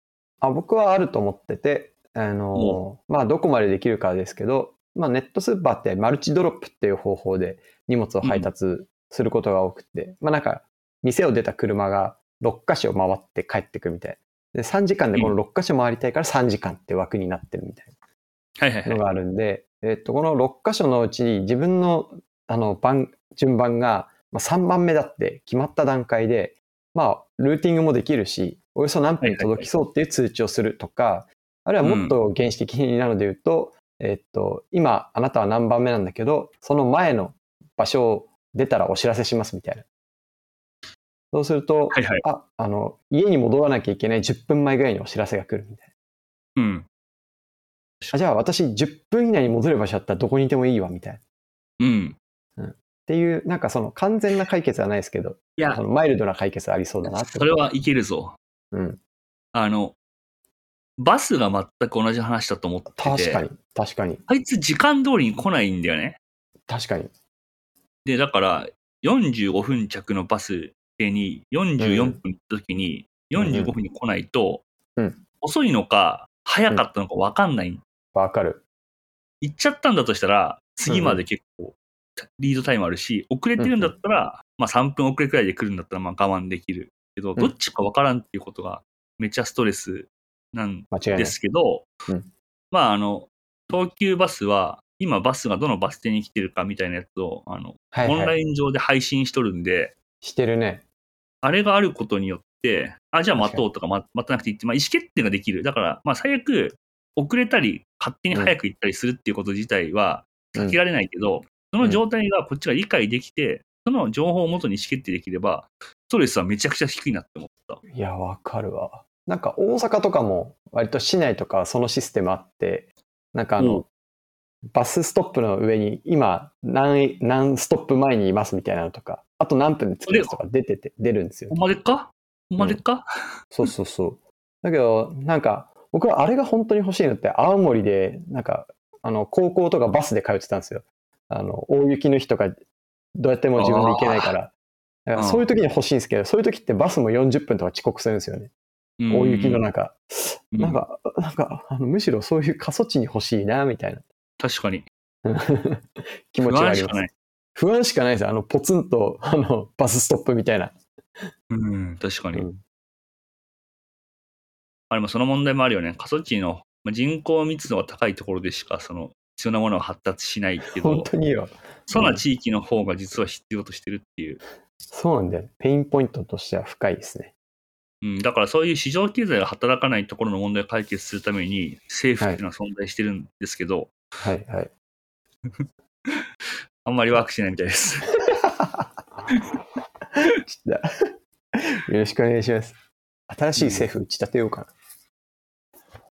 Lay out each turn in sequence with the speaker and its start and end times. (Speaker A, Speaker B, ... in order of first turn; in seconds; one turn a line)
Speaker A: 0.4-17.9
Speaker B: 2.5-2.8
Speaker B: 18.6-19.0
Speaker A: 18.9-39.9
Speaker B: 29.2-29.7
Speaker B: 31.8-32.2
Speaker A: 41.3-45.9
Speaker B: 41.9-42.2
Speaker B: 46.6-46.9
Speaker A: 48.1-51.2
Speaker B: 51.8-52.2
Speaker A: 52.6-57.6
Speaker B: 55.6-55.8
Speaker B: 57.1-58.4
Speaker A: 58.7-59.0
Speaker B: 59.5-60.0
Speaker B: 61.0-63.4
Speaker A: 62.9-64.2
Speaker B: 64.3-66.2
Speaker A: 66.7-67.1
Speaker B: 68.0-74.6
Speaker A: 71.8-72.2
Speaker A: 73.3-73.8
Speaker A: 75.0-75.2
Speaker B: 75.4-77.8
Speaker A: 78.2-78.6
Speaker B: 79.4-91.9
Speaker A: 80.9-81.2
Speaker A: 83.6-83.9
Speaker A: 90.9-91.4
Speaker B: 92.7-100.0
Speaker A: 97.9-98.4
Speaker A: 100.2-100.8
Speaker B: 101.4-117.8
Speaker A: 103.4-103.7
Speaker A: 117.9-123.9
Speaker B: 123.6-123.8
Speaker A: 124.7-131.6
Speaker B: 130.1-130.4
Speaker B: 131.5-133.1
Speaker A: 133.5-142.6
Speaker A: 143.2-144.5
Speaker B: 143.6-144.3
Speaker A: 145.1-148.5
Speaker B: 145.2-145.5
Speaker B: 149.0-149.7
Speaker A: 149.1-154.1
Speaker B: 150.5-150.8
Speaker B: 154.4-154.9
Speaker A: 155.2-157.0
Speaker B: 156.4-157.1
Speaker A: 157.6-160.8
Speaker B: 161.5-162.5
Speaker A: 162.3-162.6
Speaker B: 164.9-171.1
Speaker A: 170.6-172.2
Speaker B: 171.9-174.4
Speaker A: 174.9-177.3
Speaker B: 178.0-183.9
Speaker A: 184.2-184.7
Speaker B: 186.8-188.1
Speaker A: 188.3-188.9
Speaker A: 190.2-192.8
Speaker A: 193.3-194.7
Speaker B: 193.6-193.9